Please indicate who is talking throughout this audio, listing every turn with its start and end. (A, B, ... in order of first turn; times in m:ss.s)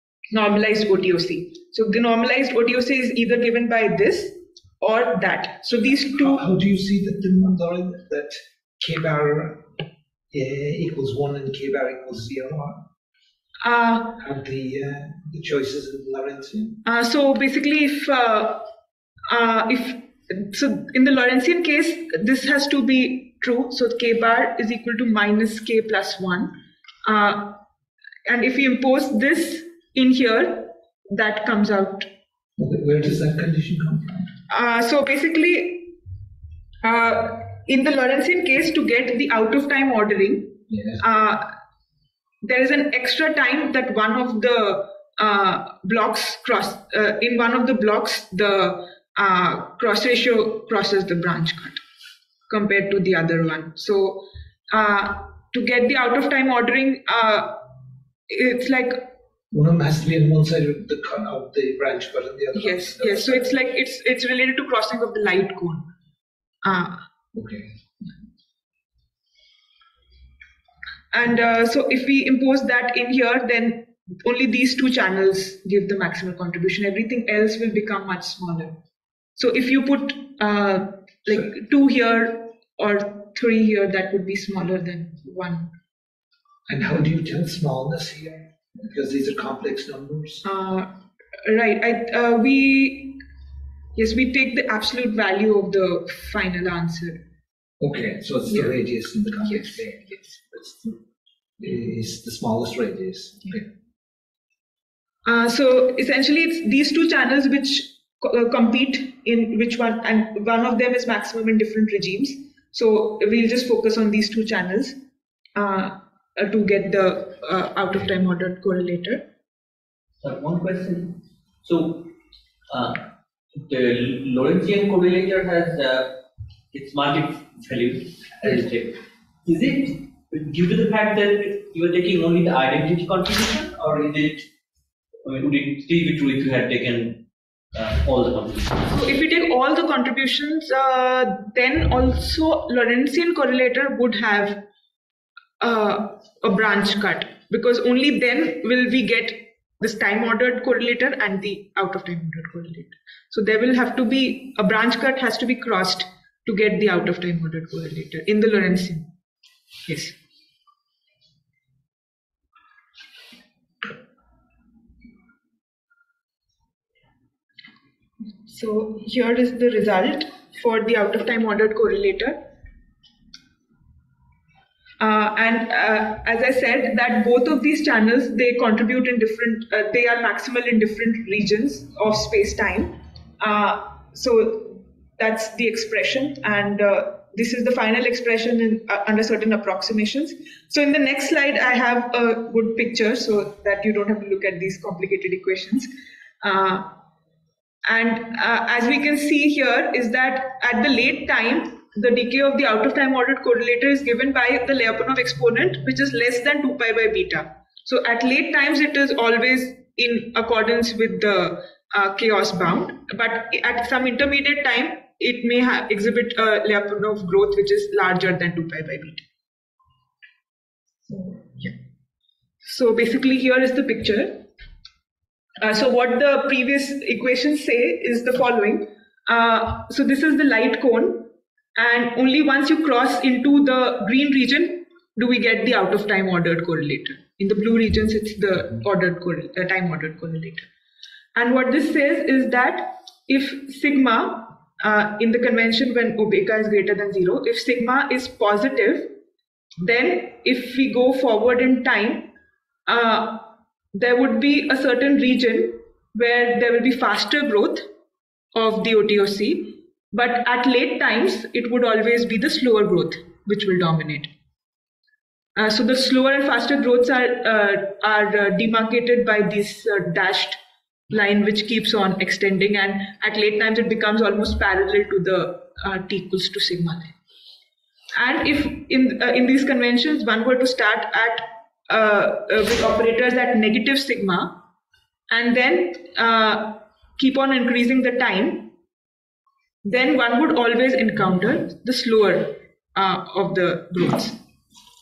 0:00.3-0:06.4 A
0:06.1-0:09.6 B
0:10.3-0:12.8 B
0:13.6-0:14.2 A
0:14.2-0:16.8 B
0:16.8-0:18.7 A
0:19.3-0:26.5 A
0:27.0-0:27.6 A
0:28.2-0:32.1 A
0:32.6-0:34.3 B
0:34.5-0:35.9 A
0:36.8-0:41.5 A
0:40.7-0:41.0 B
0:42.4-0:51.8 A
0:52.5-0:57.6 A
0:58.3-0:59.1 A
0:59.5-1:03.5 B
1:02.5-1:05.8 A
1:06.6-1:07.0 A
1:07.3-1:07.7 B
1:11.1-1:18.8 A
1:19.4-1:25.7 A
1:26.7-1:30.4 B
1:30.4-1:30.9 A
1:31.4-1:33.2 A
1:34.0-1:37.2 A
1:37.8-1:40.9 B
1:38.5-1:38.8 A
1:39.4-1:40.4 A
1:41.6-1:43.7 B
1:45.2-1:55.0 A
1:55.6-1:59.2 A
2:00.2-2:02.1 C
2:02.7-2:06.2 C
2:06.7-2:14.4 C
2:15.2-2:17.2 C
2:17.7-2:18.8 C
2:18.8-2:24.6 A
2:25.6-2:39.1 A
2:39.8-2:40.1 A
2:48.4-2:52.4 A
2:55.0-3:15.9 A
3:16.4-3:16.9 A
3:17.8-3:39.2 A
3:41.1-3:41.7 A
3:42.6-3:44.4 A
3:45.6-4:00.6 A
4:01.3-4:09.1 A
4:09.8-4:12.3 A
4:12.9-4:17.8 A
4:18.5-4:24.3 A
4:25.6-4:30.6 A
4:31.1-4:37.1 A
4:38.1-4:44.5 A
4:45.3-4:48.7 A
4:49.8-4:54.4 A